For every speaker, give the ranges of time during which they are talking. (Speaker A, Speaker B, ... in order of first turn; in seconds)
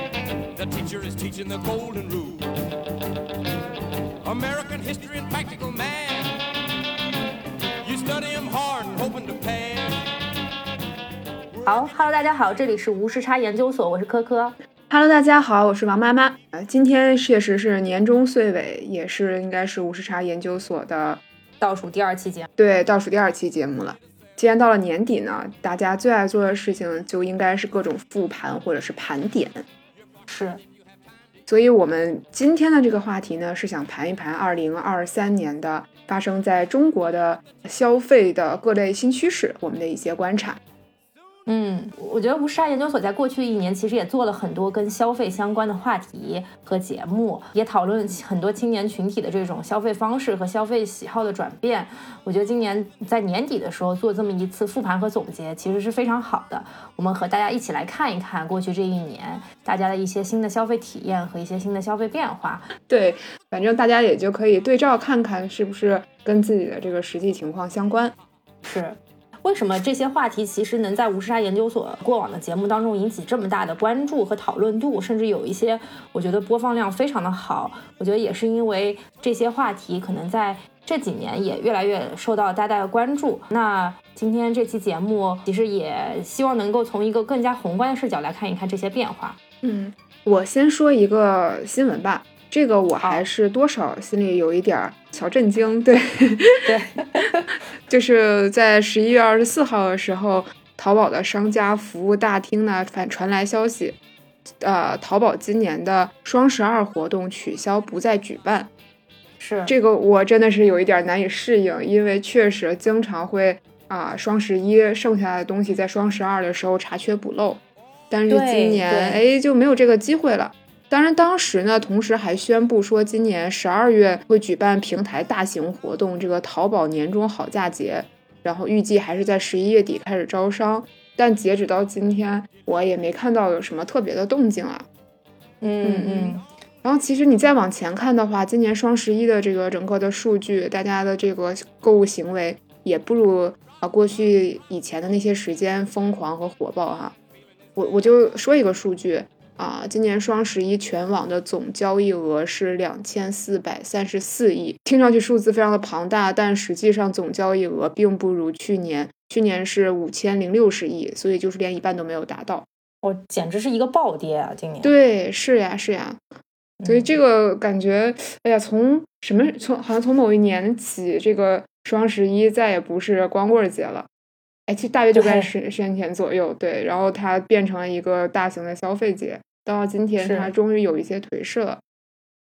Speaker A: 0.5-2.5, 4.2-6.4, 7.8-10.0
Speaker B: 11.7-14.6, 21.6-22.5, 30.3-30.6, 41.5-62.7, 68.6-89.4, 96.6-97.5, 109.4-109.7, 118.3-119.2, 135.6-136.4, 163.0-164.9, 166.8-167.1, 175.1-175.5, 180.2-180.5
Speaker C: 14.9-21.2, 22.6-29.6, 31.5-40.6, 62.9-68.1, 89.6-96.7, 97.9-104.0, 104.6-108.7, 109.7-134.9, 135.8-147.1, 147.8-162.7, 164.8-166.2, 166.8-174.1, 174.7-181.8